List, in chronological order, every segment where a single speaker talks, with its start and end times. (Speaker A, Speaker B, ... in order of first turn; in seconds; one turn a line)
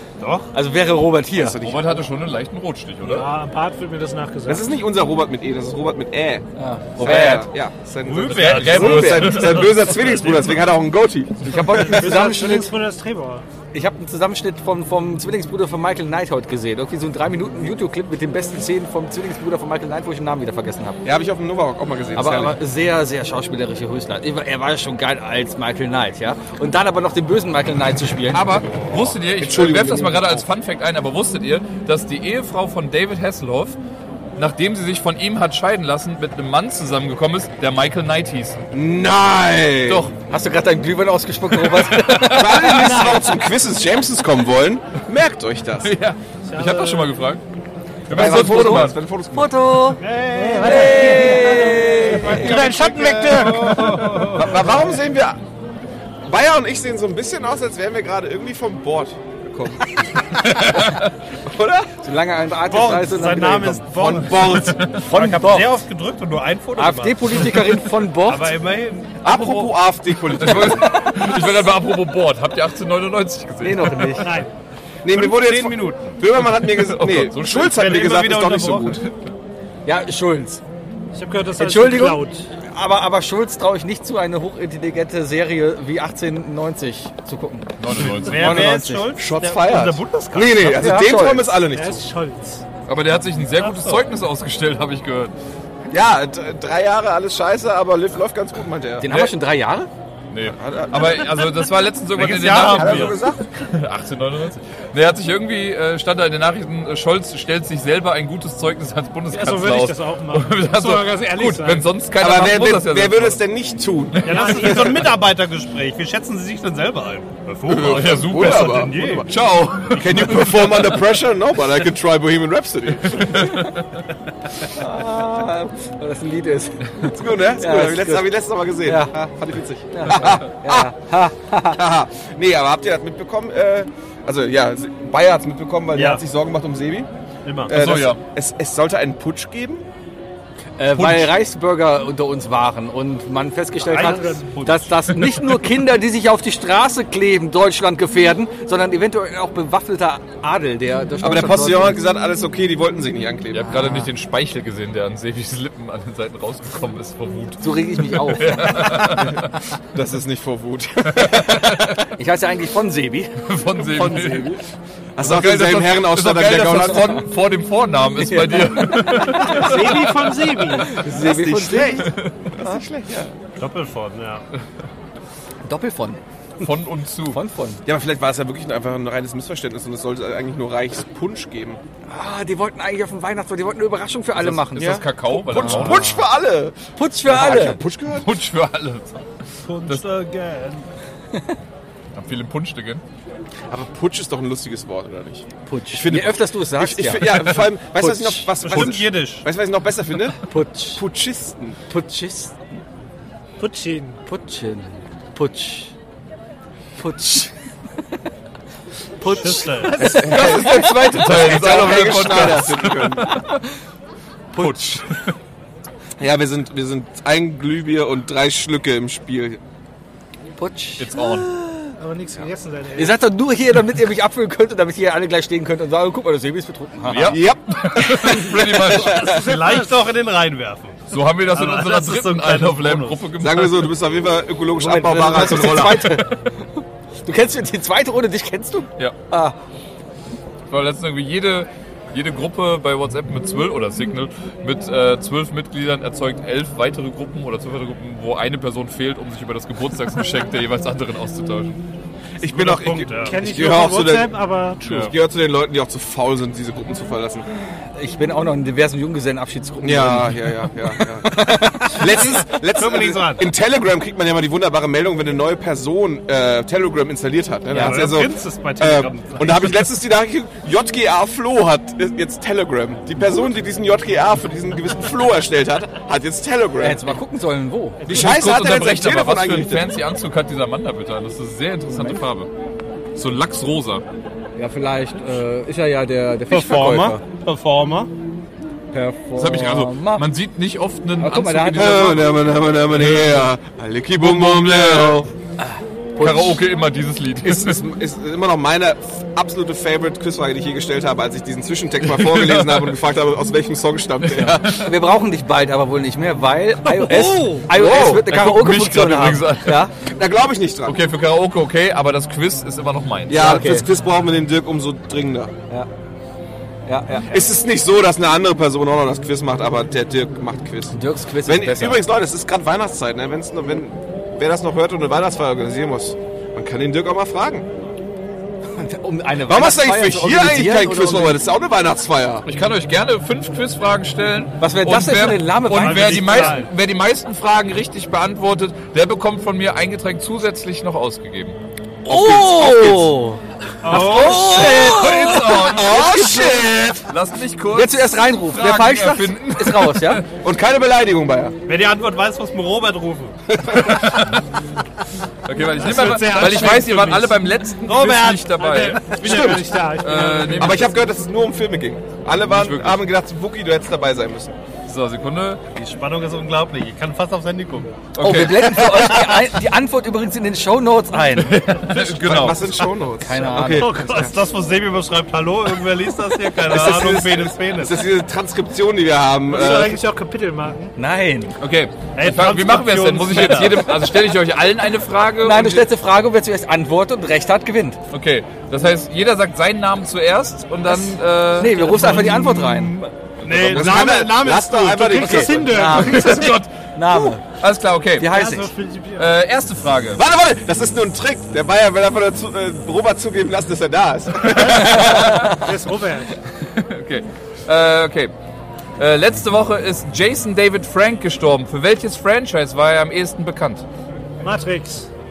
Speaker A: 0.2-0.5
Speaker B: 0.5-1.6
Speaker C: 1.3-2.0
Speaker D: 1.6-3.3
Speaker E: 3.0-4.7
Speaker C: 4.5-6.4
Speaker B: 6.6-7.5
Speaker C: 7.0-11.5
Speaker A: 8.0-10.4
Speaker D: 8.2-9.7
Speaker B: 11.4-12.7
Speaker E: 11.7-13.4
Speaker B: 13.7-21.0
Speaker C: 21.0-22.6
Speaker B: 22.1-29.0
Speaker D: 28.3-33.8
Speaker C: 29.4-30.4
Speaker D: 34.4-38.6
Speaker C: 38.7-40.1
Speaker B: 40.1-43.1
Speaker D: 41.5-42.8
Speaker C: 42.2-45.9
Speaker E: 42.6-43.2
Speaker D: 45.8-47.4
Speaker E: 46.5-47.1
Speaker D: 48.1-49.0
Speaker C: 48.1-49.5
Speaker B: 48.1-52.5
Speaker A: 50.0-54.8
Speaker E: 50.3-54.2
Speaker C: 54.0-55.4
Speaker C: 56.2-60.1
Speaker D: 60.6-60.9
Speaker C: 61.4-61.9
Speaker B: 62.0-63.9
Speaker A: 62.6-69.2
Speaker C: 63.9-64.9
Speaker B: 65.0-65.8
Speaker B: 66.8-68.6
Speaker C: 69.2-71.3
Speaker D: 69.2-69.7
Speaker D: 70.2-74.4
Speaker B: 73.6-74.5
Speaker E: 74.2-74.5
Speaker C: 75.0-79.0
Speaker A: 75.1-76.1
Speaker D: 76.5-77.8
Speaker A: 77.5-79.0
Speaker B: 79.8-80.6
Speaker E: 81.1-82.5
Speaker B: 81.6-89.1
Speaker D: 87.8-88.7
Speaker A: 88.2-90.8
Speaker C: 88.5-92.1
Speaker B: 90.6-91.6
Speaker E: 91.7-92.6
Speaker D: 92.9-95.3
Speaker E: 93.6-94.0
Speaker C: 95.9-99.1
Speaker B: 99.0-99.9
Speaker D: 99.0-99.3
Speaker D: 100.3-113.4
Speaker C: 100.4-101.4
Speaker A: 102.1-103.2
Speaker C: 102.7-103.5
Speaker E: 109.3-111.9
Speaker C: 112.2-115.0
Speaker D: 114.1-115.1
Speaker A: 114.2-119.3
Speaker E: 114.3-114.8
Speaker D: 117.7-120.9
Speaker C: 117.7-119.3
Speaker C: 119.9-123.5
Speaker D: 123.0-123.8
Speaker B: 124.7-128.3
Speaker C: 124.9-125.2
Speaker C: 127.0-130.9
Speaker B: 128.8-129.2
Speaker B: 129.9-131.8
Speaker C: 131.6-137.1
Speaker A: 135.9-136.2
Speaker A: 137.4-137.7
Speaker C: 137.6-139.8
Speaker D: 137.7-138.2
Speaker B: 140.8-152.0
Speaker D: 140.9-141.3
Speaker A: 143.8-145.0
Speaker E: 144.0-144.4
Speaker C: 151.2-153.9
Speaker D: 153.5-159.4
Speaker B: 153.8-154.1
Speaker B: 157.6-158.9
Speaker C: 159.9-161.8
Speaker D: 161.1-162.0
Speaker B: 162.1-163.4
Speaker D: 163.4-164.6
Speaker A: 164.0-164.5
Speaker C: 165.2-167.2
Speaker D: 165.2-170.2
Speaker B: 168.3-169.2
Speaker E: 169.3-171.0
Speaker B: 170.8-172.1
Speaker C: 171.1-173.3
Speaker D: 171.8-172.5
Speaker A: 173.6-174.4
Speaker B: 175.6-176.2
Speaker D: 176.6-177.4
Speaker B: 177.3-177.8
Speaker C: 177.8-181.8
Speaker B: 182.1-186.2
Speaker D: 184.3-186.1
Speaker C: 184.7-188.3
Speaker B: 186.9-187.8
Speaker D: 188.2-189.2
Speaker A: 189.7-190.8
Speaker D: 192.1-193.0
Speaker C: 193.7-200.4
Speaker B: 195.7-198.5
Speaker A: 198.6-199.5
Speaker D: 198.7-199.0
Speaker B: 200.4-201.0
Speaker C: 200.9-201.8
Speaker B: 201.9-202.6
Speaker E: 203.6-204.2
Speaker B: 204.2-205.9
Speaker B: 207.0-207.5
Speaker B: 209.2-212.6
Speaker A: 209.3-210.1
Speaker E: 209.7-210.4
Speaker D: 210.1-213.6
Speaker C: 210.1-213.2
Speaker B: 214.5-215.1
Speaker D: 214.6-215.3
Speaker C: 216.2-219.6
Speaker B: 220.6-221.9
Speaker D: 221.0-221.5
Speaker E: 222.0-223.3
Speaker B: 222.9-227.4
Speaker D: 227.1-229.5
Speaker C: 227.2-228.5
Speaker A: 228.9-233.2
Speaker E: 229.1-230.0
Speaker D: 231.1-233.9
Speaker C: 233.4-236.2
Speaker B: 234.7-236.3
Speaker D: 235.7-236.3
Speaker B: 237.2-239.5
Speaker D: 240.7-251.7
Speaker C: 252.4-254.3
Speaker A: 252.5-253.4
Speaker E: 253.2-255.1
Speaker D: 254.8-255.1
Speaker C: 255.0-257.5
Speaker B: 257.9-262.2
Speaker C: 259.8-277.2
Speaker A: 262.0-263.5
Speaker A: 267.7-269.9
Speaker B: 267.7-268.0
Speaker B: 276.8-278.1
Speaker D: 278.0-282.5
Speaker C: 278.1-279.9
Speaker B: 281.9-282.2
Speaker D: 283.1-284.0
Speaker B: 284.6-287.2
Speaker A: 286.5-288.1
Speaker B: 288.9-290.3
Speaker D: 289.4-292.3
Speaker B: 291.2-292.2
Speaker C: 291.7-295.3
Speaker D: 292.9-293.5
Speaker D: 294.2-295.3
Speaker B: 295.6-296.6
Speaker D: 296.2-297.8
Speaker C: 297.4-304.8
Speaker D: 302.0-303.0
Speaker D: 304.2-304.9
Speaker B: 304.6-309.9
Speaker E: 307.1-307.6
Speaker C: 307.7-308.3
Speaker D: 307.7-309.9
Speaker C: 310.0-311.0
Speaker D: 310.9-313.6
Speaker C: 313.3-315.5
Speaker B: 313.3-313.9
Speaker B: 316.9-317.4
Speaker C: 317.3-327.7
Speaker B: 320.9-322.0
Speaker B: 328.8-331.4
Speaker C: 329.4-332.4
Speaker D: 332.4-341.6
Speaker B: 334.6-336.6
Speaker A: 335.7-336.7
Speaker B: 342.0-346.1
Speaker C: 342.1-343.1
Speaker A: 343.8-344.7
Speaker D: 344.1-350.3
Speaker C: 344.5-347.0
Speaker B: 347.7-350.2
Speaker C: 350.4-351.5
Speaker A: 351.7-353.4
Speaker C: 353.5-354.2
Speaker D: 353.7-354.4
Speaker D: 355.4-360.9
Speaker E: 355.8-357.4
Speaker A: 356.4-356.7
Speaker A: 357.9-358.7
Speaker E: 358.6-360.9
Speaker C: 359.2-359.7
Speaker C: 360.6-364.6
Speaker D: 362.4-363.0
Speaker D: 364.9-365.6
Speaker A: 365.7-367.9
Speaker D: 368.1-369.4
Speaker B: 368.2-371.6
Speaker D: 371.4-372.8
Speaker C: 371.9-373.9
Speaker B: 373.2-374.4
Speaker A: 373.6-378.0
Speaker E: 373.7-374.1
Speaker C: 376.6-380.0
Speaker E: 379.5-380.9
Speaker B: 380.9-381.5
Speaker D: 381.6-385.9
Speaker A: 382.1-384.0
Speaker B: 385.4-388.0
Speaker D: 388.1-394.0
Speaker B: 390.8-393.0
Speaker A: 393.4-395.5
Speaker C: 393.6-395.7
Speaker E: 394.9-396.6
Speaker B: 395.5-397.4
Speaker D: 395.8-398.5
Speaker B: 398.2-398.7
Speaker E: 398.2-399.4
Speaker D: 399.1-400.2
Speaker C: 400.1-405.4
Speaker E: 404.5-406.3
Speaker D: 404.5-405.6
Speaker D: 406.6-408.3
Speaker D: 409.0-413.8
Speaker E: 414.4-415.1